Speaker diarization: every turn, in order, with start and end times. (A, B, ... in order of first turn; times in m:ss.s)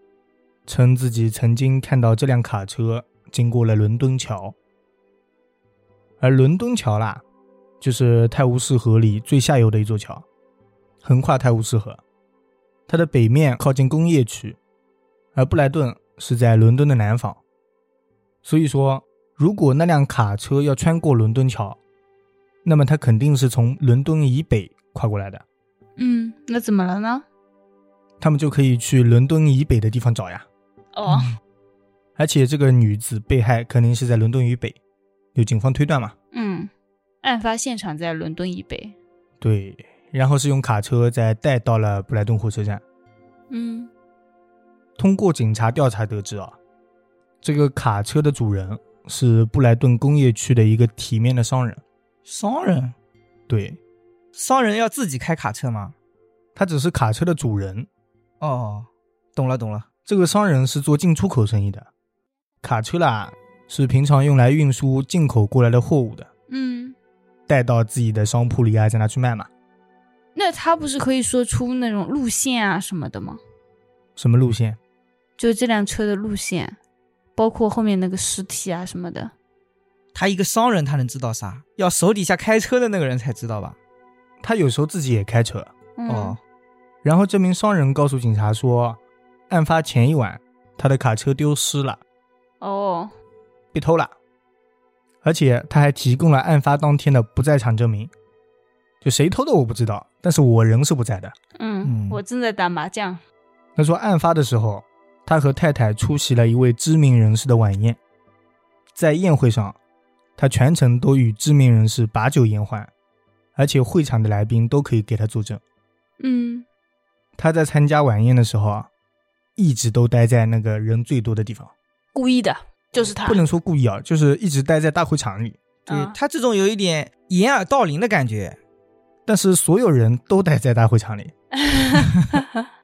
0:00.7-0:04.6 A
0:06.2-0:07.2 A
0:07.8-0:10.2 A
0:11.0-0:12.0 A
0:12.9-0:14.6 A
0:15.4-0:17.4 A
0:18.4-0:21.8 A
0:22.6-0:25.4 A
0:26.0-0:27.2 B
0:28.2-0:30.5 A
0:31.0-0:31.3 B
0:32.2-0:34.8 A
0:35.4-0:36.2 A
0:36.3-0:36.7 B
0:37.2-0:39.0 B
0:39.4-0:42.8 A
0:43.5-0:43.9 B
0:45.0-0:46.6 A
0:47.4-0:51.8 A
0:52.3-0:53.0 C
0:53.5-0:53.8 A
0:54.4-0:55.9 C
0:56.6-0:57.9 A
0:58.4-0:59.9 C
1:00.1-1:01.9 A
1:02.6-1:06.3 A
1:06.5-1:07.0 B
1:07.5-1:09.5 A
1:10.4-1:13.4 B
1:14.2-1:14.8 A
1:15.4-1:16.8 B
1:17.4-1:19.3 B
1:20.1-1:23.8 C
1:24.4-1:25.7 A
1:26.0-1:26.4 B
1:26.1-1:26.4 C
1:27.0-1:32.0 A
1:32.6-1:33.1 B
1:33.7-1:34.1 A
1:35.2-1:38.1 A
1:39.0-1:41.4 A
1:41.6-1:43.2 B
1:41.8-1:42.2 C
1:43.8-1:48.0 A
1:49.0-1:49.8 A
1:50.4-1:52.9 A
1:53.6-1:55.6 A
1:56.2-1:56.7 B
1:57.4-1:58.9 A
1:59.6-2:01.7 A
2:02.1-2:03.4 B
2:03.2-2:05.6 A
2:05.9-2:08.6 C
2:05.9-2:06.2 B
2:09.3-2:11.3 A
2:11.6-2:12.6 B